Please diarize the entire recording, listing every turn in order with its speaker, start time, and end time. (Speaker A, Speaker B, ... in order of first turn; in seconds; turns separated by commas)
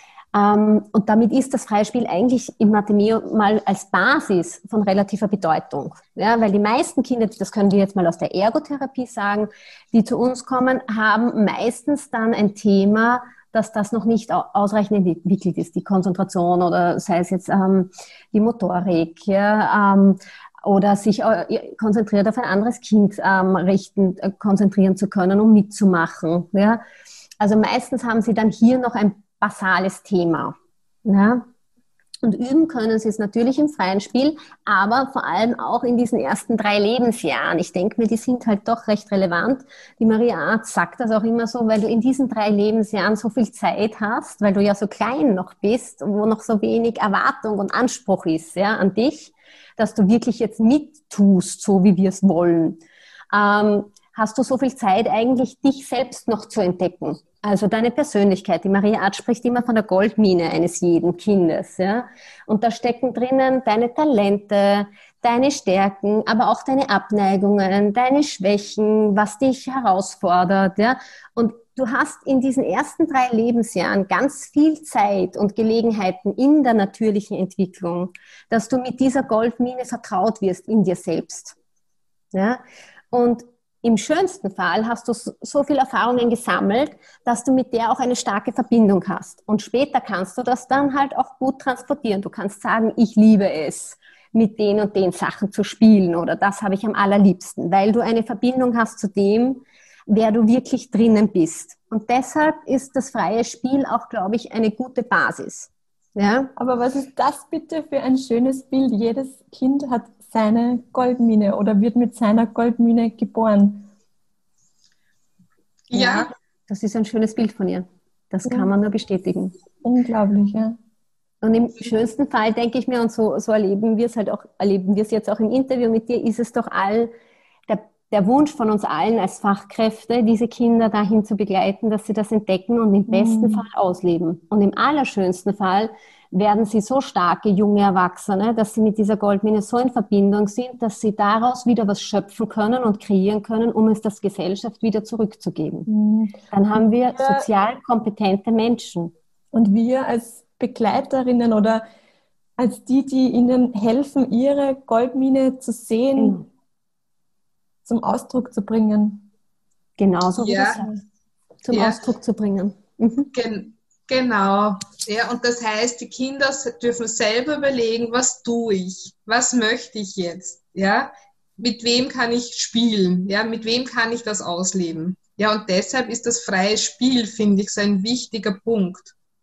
Speaker A: 0.3-26.8, Speaker A: 27.4-31.4, Speaker A: 32.2-52.8, Speaker A: 53.3-81.5, Speaker A: 82.3-106.5, Speaker B: 106.5-113.9, Speaker A: 115.9-119.5, Speaker C: 115.9-116.3, Speaker B: 118.4-118.7, Speaker B: 119.8-120.8, Speaker A: 121.4-127.1, Speaker A: 127.7-145.9, Speaker B: 133.1-133.7, Speaker B: 145.9-146.4, Speaker A: 146.5-149.1, Speaker B: 147.1-147.4, Speaker B: 149.5-151.8, Speaker B: 152.6-156.4, Speaker A: 156.2-156.4, Speaker B: 157.8-159.2, Speaker A: 160.0-160.9, Speaker C: 160.4-160.8, Speaker A: 161.6-163.3, Speaker C: 161.7-162.0, Speaker C: 163.3-179.1